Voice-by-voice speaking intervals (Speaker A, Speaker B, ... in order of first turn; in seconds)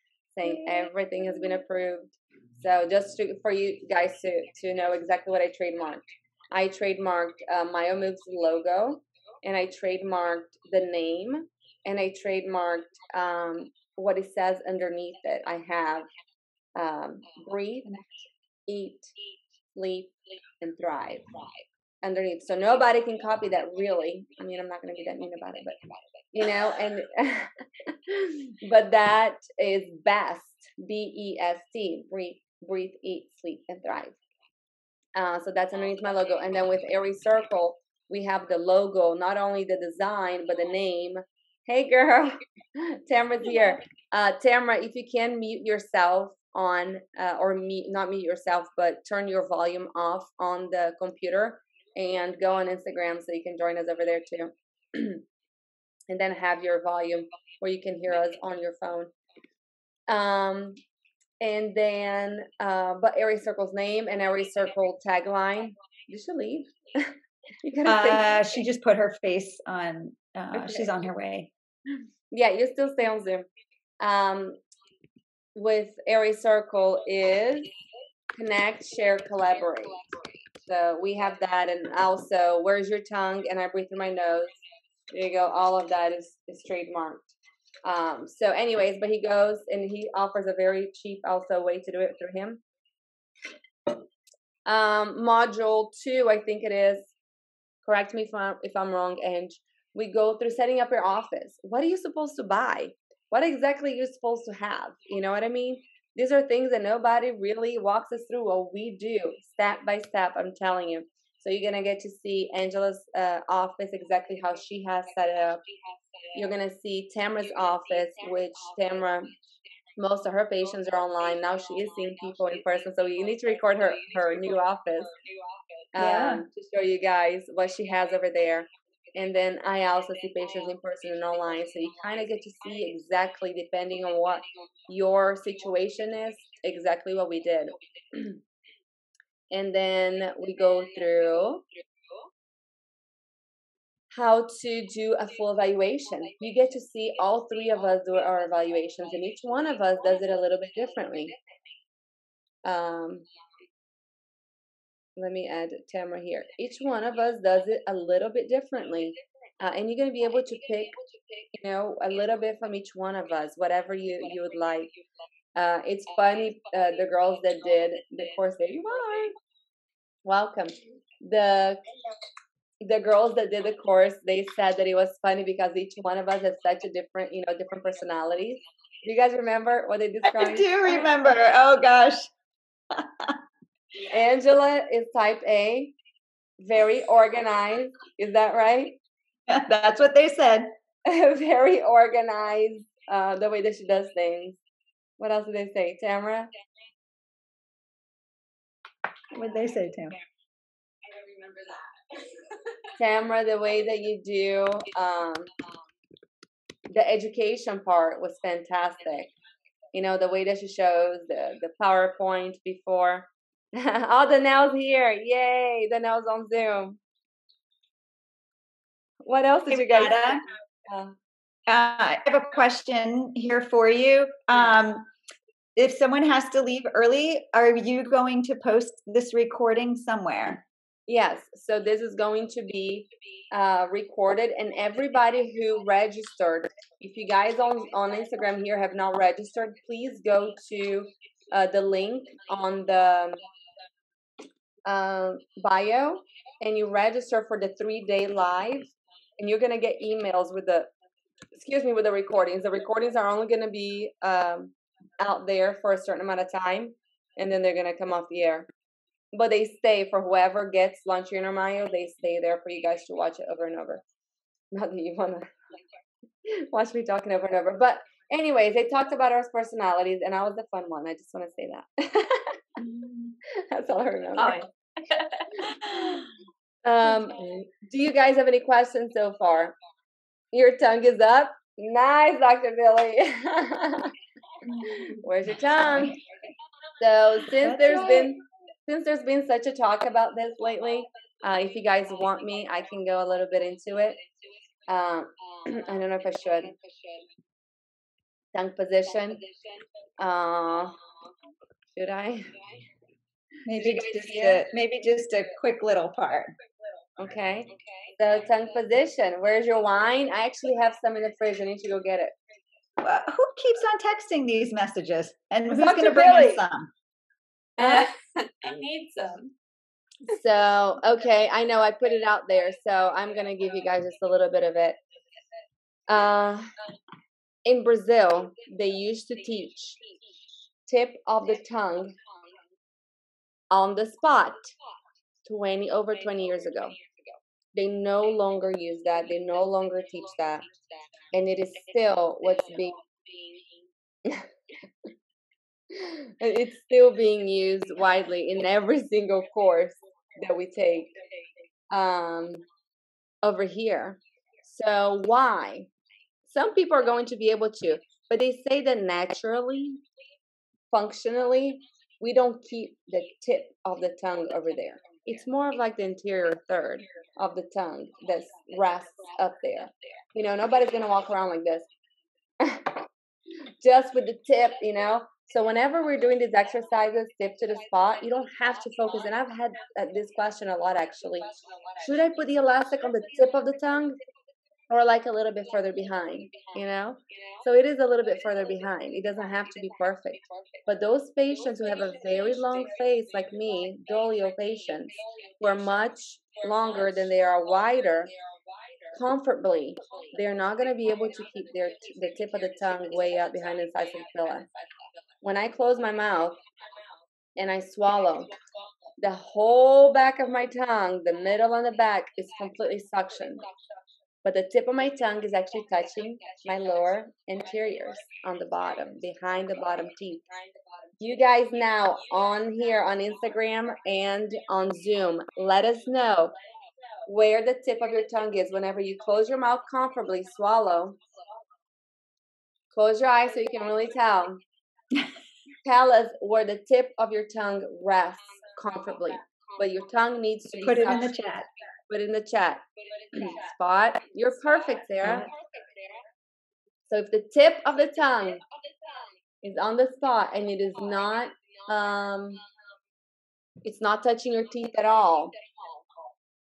Speaker A: 0.3-16.1, 16.8-17.9, 18.7-19.1, 19.8-21.2, 22.0-25.8, 26.3-34.2, 35.1-55.2, 56.1-59.1, 60.1-60.8, 61.4-68.6, 70.5-71.1, 72.3-73.5, 74.0-74.6, 75.5-77.7, 78.4-80.0, 80.7-84.6, 85.1-87.3, 87.8-92.6, 94.7-97.1, 97.8-115.6, 116.3-119.3, 120.0-125.1, 125.9-138.4, 139.5-141.6, 144.1-151.3, 152.6-153.2, 155.2-160.9, 161.5-164.9, 165.6-169.4, 170.2-171.8, 172.8-181.0, 184.1-185.9, 186.6-189.0, 191.1-194.6, 195.2-196.5, 203.0-205.5, 206.9-209.3, 209.9-217.0, 219.2-221.2, 231.1-243.4, 244.8-250.9, 251.6-258.7, 259.3-264.0, 264.7-265.5, 266.5-272.6, 273.6-274.7, 276.8-279.8, 280.5-284.1, 284.8-286.2, 287.0-294.2, 294.9-296.7, 298.5-299.4, 300.2-300.9, 302.0-302.5, 307.2-312.4, 315.7-316.6, 317.8-318.1, 318.6-319.3, 320.3-325.0, 326.1-326.7, 327.6-330.0, 330.9-332.1, 333.7-334.7, 335.5-336.9, 337.8-340.7, 341.3-343.0, 345.9-351.1, 351.9-352.6, 353.4-355.9, 356.5-360.0, 360.9-371.9, 372.6-373.0, 373.8-381.5, 382.0-384.2, 384.9-398.3, 399.1-404.7, 405.4-406.6, 407.6-408.5, 409.2-413.6, 414.4-420.4, 421.2-426.5, 427.3-431.2, 432.9-434.6, 435.8-441.4, 442.1-445.5, 447.1-448.6, 449.6-452.6, 453.8-455.5
Speaker B: 67.8-71.5, 126.0-126.4, 180.2-182.3, 182.9-183.4, 189.5-190.7, 199.3-200.2, 219.7-220.4, 221.7-225.1, 225.8-230.6, 272.8-273.4, 285.8-286.2, 287.6-288.3, 303.7-306.6, 313.0-316.9, 440.8-441.7
Speaker C: 123.4-123.7, 125.1-125.6, 201.1-201.9, 296.8-297.2, 303.9-304.6, 337.0-337.3, 343.3-343.6, 381.5-382.1, 390.4-390.8, 392.2-392.6, 395.2-395.5, 396.6-399.1, 402.9-404.9, 406.7-407.1, 441.0-441.4, 445.2-446.3, 449.0-449.3, 455.6-456.0